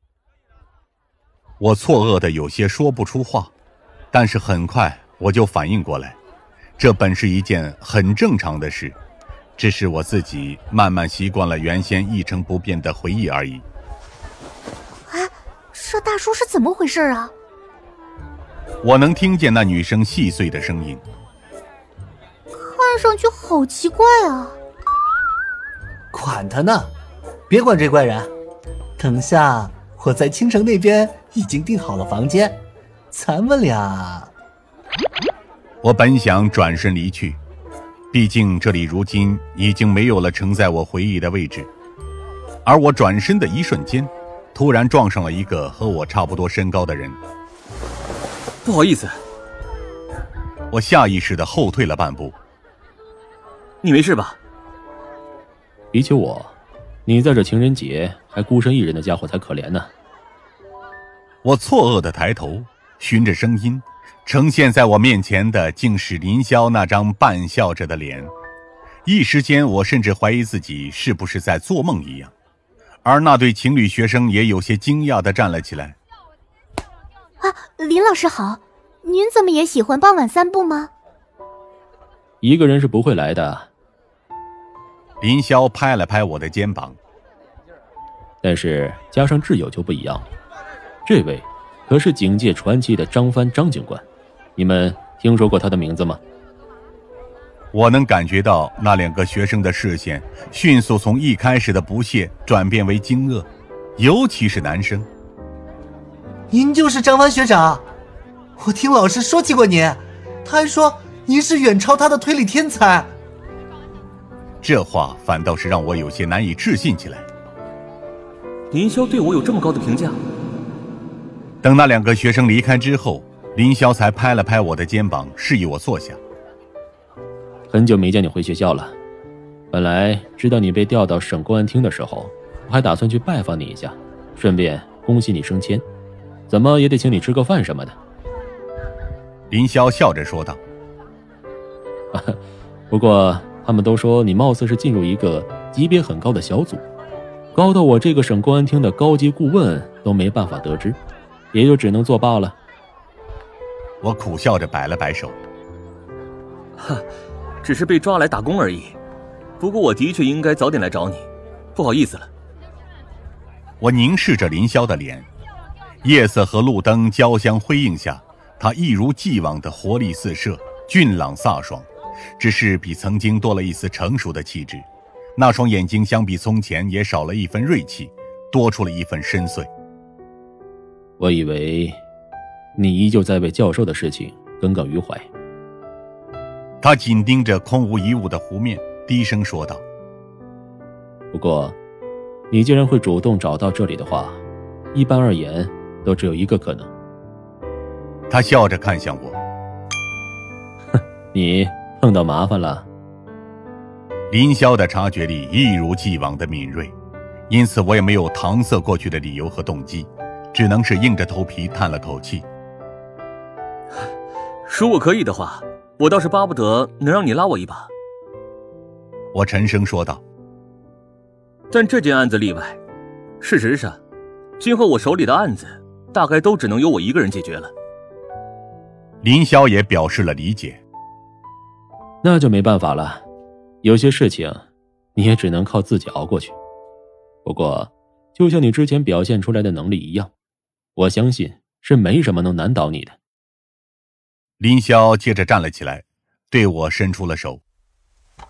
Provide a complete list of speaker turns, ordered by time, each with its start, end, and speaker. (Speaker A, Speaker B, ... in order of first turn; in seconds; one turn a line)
Speaker A: 1.6-3.5
Speaker A: 4.1-6.2
Speaker A: 6.8-9.0
Speaker A: 9.6-13.6
Speaker B: 15.1-17.3
Speaker A: 18.8-21.0
Speaker B: 22.5-24.6
Speaker C: 26.1-26.9
Speaker C: 27.5-28.3
Speaker C: 29.0-32.6
Speaker C: 33.1-34.3
Speaker A: 35.8-37.4
Speaker A: 38.1-41.7
Speaker A: 42.6-47.2
Speaker D: 48.6-49.2
Speaker A: 50.7-52.4
Speaker D: 53.8-54.4
Speaker E: 55.9-56.5
Speaker E: 57.0-59.9
Speaker A: 61.4-68.3
Speaker A: 69.0-72.3
Speaker A: 73.0-76.0
Speaker B: 77.4-80.9
Speaker E: 82.4-83.7
Speaker A: 85.2-87.0
Speaker E: 88.4-90.3
Speaker E: 91.0-94.0
Speaker E: 94.5-96.2
Speaker A: 97.7-105.1
Speaker C: 106.5-107.8
Speaker C: 108.6-113.1
Speaker A: 114.6-117.3
Speaker D: 118.7-120.2
Speaker A: 121.6-126.2
Speaker E: 127.7-128.9
Speaker E: 129.7-135.8
Speaker E: 136.5-137.9
Speaker A: 139.5-140.6
Speaker E: 142.1-142.4
Speaker E: 142.9-146.8
Speaker E: 147.5-151.0
Speaker E: 151.5-152.6
Speaker A: 154.0-155.4
Speaker D: 156.8-157.0
Speaker D: 157.6-158.9
Speaker D: 159.6-162.3
Speaker A: 163.8-165.3
Speaker A: 166.0-179.7
Speaker E: 181.2-182.0
Speaker E: 182.8-185.3
Speaker A: 186.8-189.8
Speaker E: 191.3-191.7
Speaker E: 192.5-194.4
Speaker E: 194.9-196.9
Speaker A: 198.3-199.4
Speaker E: 201.0-202.9
Speaker A: 204.3-206.9
Speaker A: 207.5-212.4
Speaker D: 214.7-217.9
Speaker A: 219.3-220.2
Speaker D: 221.7-222.8
Speaker D: 223.4-224.0
Speaker D: 224.6-227.7
Speaker A: 229.2-230.8
Speaker E: 232.2-233.2
Speaker E: 233.8-234.6
Speaker E: 235.1-236.5
Speaker E: 237.4-240.3
Speaker E: 240.9-243.2
Speaker A: 244.6-247.6